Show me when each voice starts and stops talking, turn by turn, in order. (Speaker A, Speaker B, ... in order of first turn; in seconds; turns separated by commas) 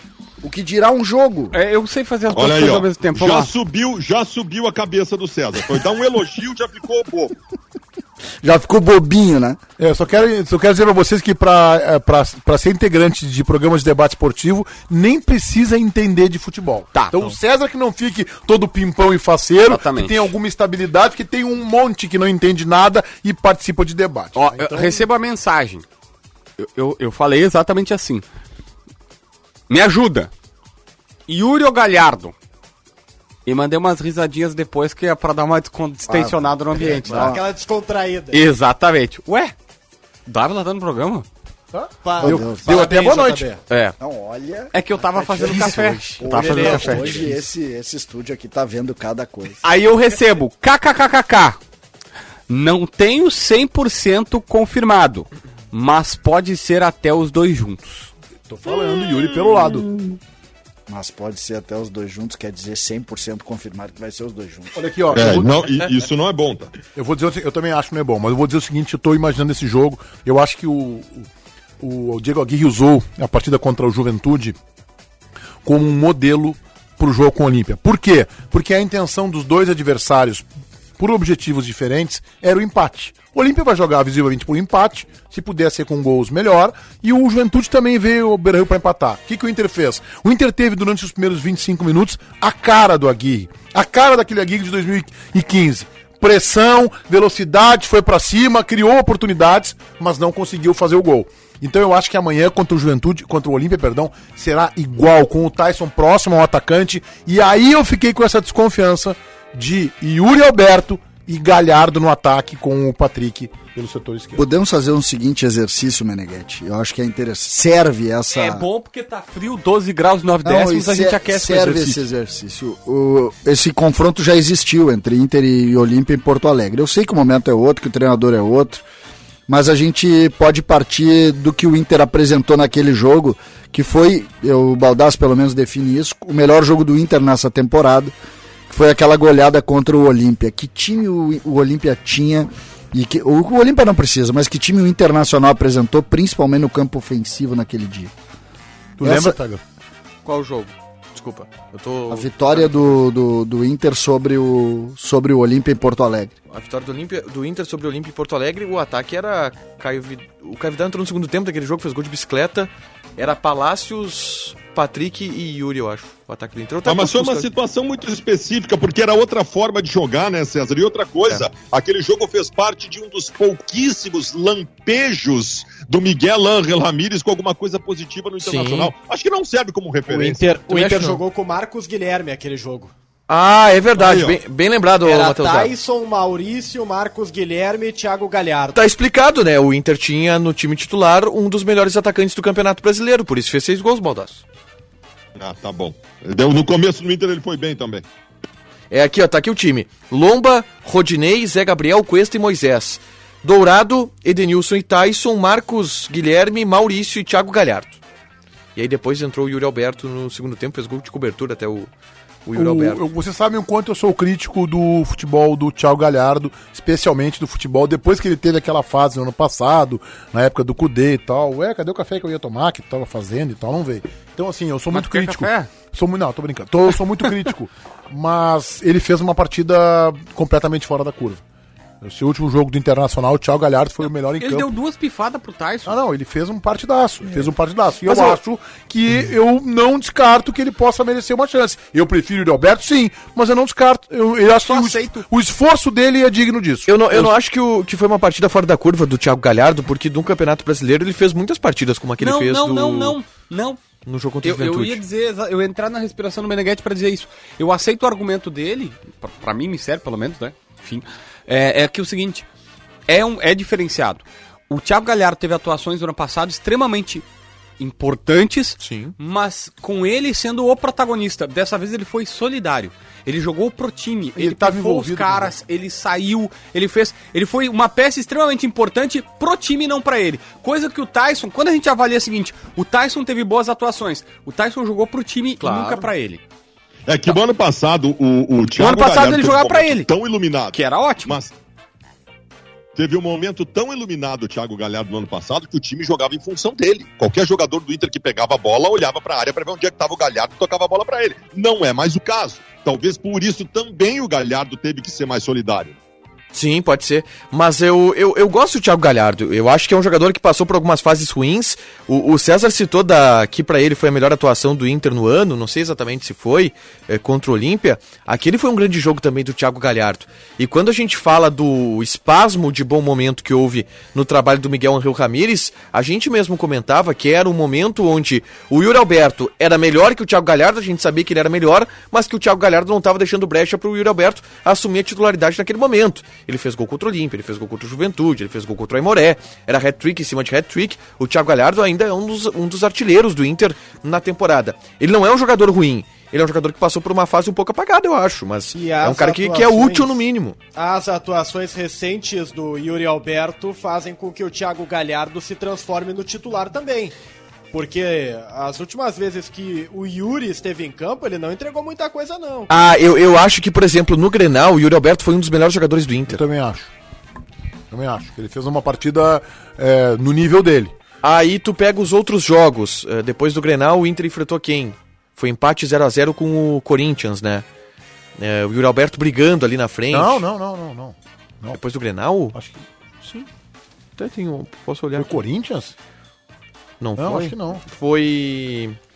Speaker A: 0.4-1.6, Speaker B: 1.5-3.5, Speaker C: 2.3-7.4, Speaker A: 8.4-9.6, Speaker D: 9.8-25.0, Speaker B: 16.9-17.3, Speaker B: 19.7-20.3, Speaker B: 24.4-25.9, Speaker B: 26.6-28.3, Speaker B: 29.7-30.3, Speaker B: 31.3-32.3, Speaker B: 33.5-37.4, Speaker A: 36.1-37.5, Speaker E: 37.1-38.5, Speaker B: 38.3-39.5, Speaker B: 40.3-41.3, Speaker D: 41.7-43.5, Speaker E: 42.0-43.6, Speaker A: 42.2-42.9, Speaker B: 43.7-44.0, Speaker A: 44.0-44.7, Speaker B: 44.7-47.3, Speaker A: 45.4-49.6, Speaker F: 45.8-46.1, Speaker E: 46.2-47.4, Speaker B: 49.6-51.6, Speaker B: 52.5-58.1, Speaker D: 58.5-59.9, Speaker A: 60.9-64.8, Speaker D: 64.8-65.6, Speaker C: 65.1-66.7, Speaker D: 67.0-71.3, Speaker D: 71.8-74.6, Speaker D: 75.6-80.5, Speaker D: 81.0-114.5, Speaker A: 114.4-118.7, Speaker B: 118.3-122.0, Speaker A: 120.5-128.8, Speaker A: 129.5-138.1, Speaker A: 138.7-148.1, Speaker D: 149.0-149.6, Speaker A: 149.0-149.4, Speaker F: 150.2-152.9, Speaker A: 152.1-156.3, Speaker F: 156.5-167.5, Speaker C: 166.8-180.4, Speaker F: 178.4-178.9, Speaker E: 180.1-182.9, Speaker F: 180.7-181.2, Speaker F: 183.3-185.7, Speaker C: 184.0-184.4, Speaker E: 185.0-188.8, Speaker F: 188.7-194.4, Speaker C: 195.4-198.0, Speaker F: 198.9-208.0, Speaker F: 208.8-211.9, Speaker F: 212.5-213.0, Speaker D: 212.5-231.4, Speaker B: 224.9-225.7, Speaker D: 232.0-234.7, Speaker B: 234.4-236.0, Speaker D: 235.9-247.3, Speaker F: 238.1-238.4, Speaker B: 244.6-245.3, Speaker F: 246.9-253.2, Speaker B: 252.2-253.8, Speaker F: 254.1-255.0, Speaker B: 254.4-262.5, Speaker B: 263.1-267.2, Speaker B: 267.8-286.4, Speaker F: 268.8-269.2, Speaker D: 274.4-275.6, Speaker F: 285.6-286.1, Speaker C: 287.1-291.5, Speaker B: 288.8-290.1, Speaker B: 290.7-291.4, Speaker C: 292.9-306.0, Speaker F: 306.5-350.6, Speaker E: 348.7-350.2, Speaker E: 350.8-357.1, Speaker E: 357.7-362.7, Speaker F: 362.7-366.4, Speaker D: 366.3-366.9, Speaker D: 367.9-370.9, Speaker F: 371.2-377.6, Speaker F: 378.4-380.4, Speaker D: 380.1-381.8, Speaker F: 381.7-382.6, Speaker D: 382.5-383.5, Speaker F: 384.2-385.3, Speaker D: 385.1-385.9, Speaker F: 387.0-389.0, Speaker D: 387.2-387.8